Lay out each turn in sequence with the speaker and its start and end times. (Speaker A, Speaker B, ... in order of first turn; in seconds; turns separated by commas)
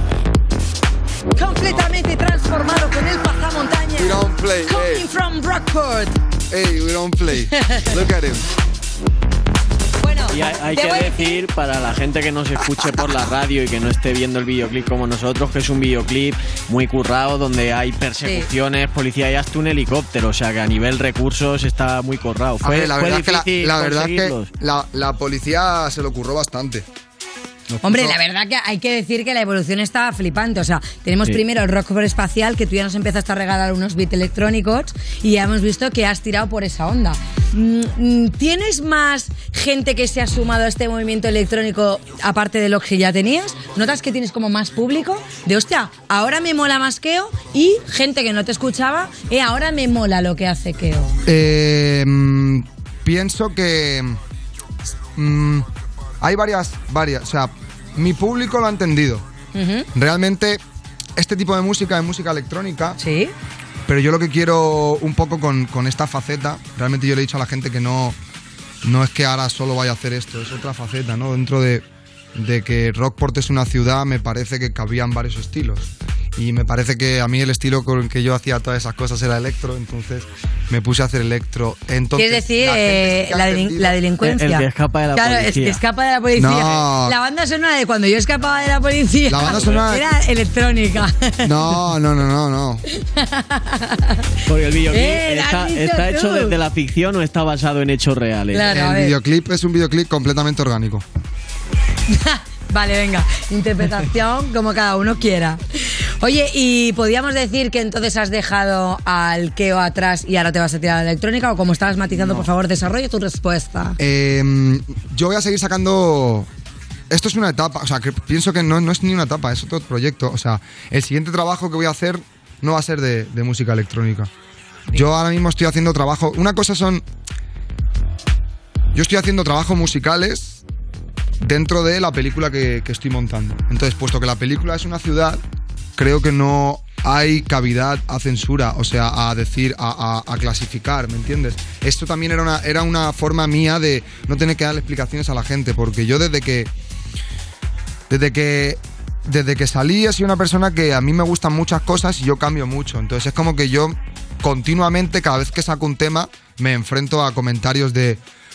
Speaker A: 1.4-6.2, Speaker B: 4.0-5.1, Speaker B: 6.5-8.5, Speaker A: 10.0-11.4, Speaker C: 10.3-24.5, Speaker B: 22.6-26.9, Speaker A: 27.8-51.1, Speaker B: 27.9-28.1, Speaker B: 51.2-54.2, Speaker B: 55.2-55.7, Speaker B: 56.2-59.2, Speaker A: 59.5-59.9, Speaker B: 60.0-60.6, Speaker B: 61.2-63.0, Speaker A: 63.0-63.3, Speaker B: 63.9-68.2, Speaker B: 68.8-71.8, Speaker B: 72.3-84.0, Speaker A: 82.2-91.8, Speaker C: 84.2-85.8, Speaker B: 86.4-87.2, Speaker B: 89.3-90.1, Speaker B: 91.4-92.8, Speaker A: 93.0-94.2, Speaker C: 94.5-98.7, Speaker A: 94.9-96.6, Speaker A: 98.5-99.2, Speaker B: 98.7-101.0, Speaker A: 102.1-114.0, Speaker B: 114.0-116.5, Speaker B: 117.1-124.3, Speaker B: 124.9-127.0, Speaker B: 128.9-130.6, Speaker B: 131.4-135.4, Speaker B: 136.0-146.7, Speaker B: 148.1-158.2